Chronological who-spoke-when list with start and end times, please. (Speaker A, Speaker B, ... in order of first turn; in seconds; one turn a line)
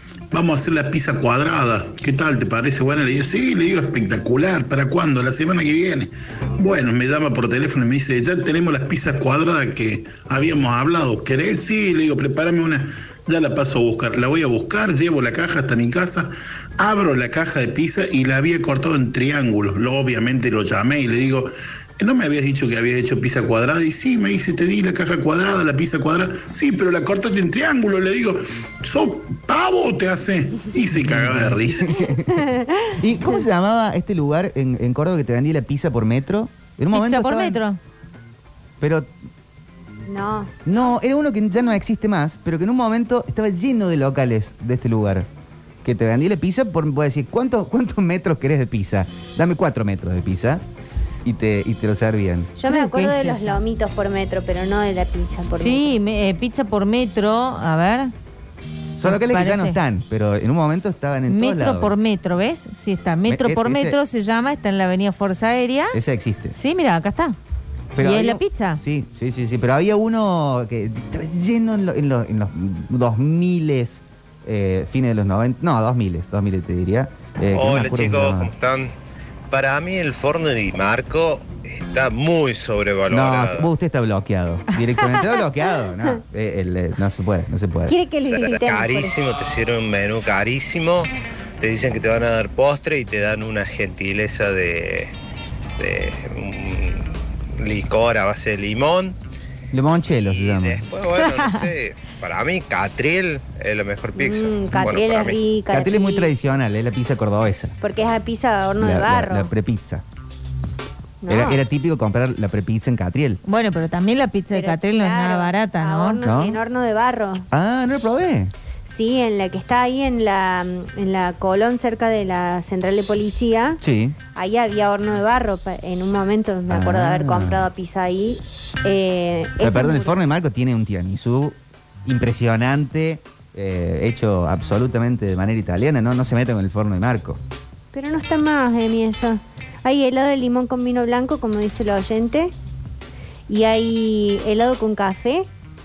Speaker A: 0.3-31.9
Speaker B: 31.0-32.3
Speaker C: 32.1-33.0
Speaker B: 33.0-37.6
Speaker D: 36.9-37.8
Speaker B: 38.8-39.1
Speaker C: 40.0-40.5
Speaker B: 40.6-45.3
Speaker B: 45.8-50.6
Speaker B: 51.2-52.5
Speaker C: 52.6-55.9
Speaker D: 52.7-53.6
Speaker D: 55.6-58.1
Speaker B: 59.0-61.9
Speaker D: 59.0-59.8
Speaker D: 61.3-66.0
Speaker B: 63.3-64.0
Speaker B: 65.9-66.5
Speaker D: 66.5-67.4
Speaker B: 67.9-78.5
Speaker D: 68.0-68.8
Speaker E: 77.5-78.9
Speaker E: 79.5-83.7
Speaker B: 83.1-88.0
Speaker C: 87.9-89.2
Speaker E: 88.2-95.1
Speaker E: 95.8-99.2
Speaker B: 99.7-100.8
Speaker E: 100.1-105.4
Speaker D: 101.2-101.6
Speaker C: 104.2-106.3
Speaker B: 105.7-107.8
Speaker C: 107.8-109.5
Speaker B: 108.8-110.0
Speaker C: 111.2-111.6
Speaker B: 111.3-113.4
Speaker D: 113.4-116.2
Speaker C: 114.5-117.5
Speaker B: 116.2-116.6
Speaker B: 117.5-118.5
Speaker C: 118.8-123.8
Speaker B: 123.8-124.2
Speaker C: 124.3-130.2
Speaker B: 126.7-127.7
Speaker B: 129.6-137.4
Speaker C: 137.9-142.5
Speaker C: 143.5-145.5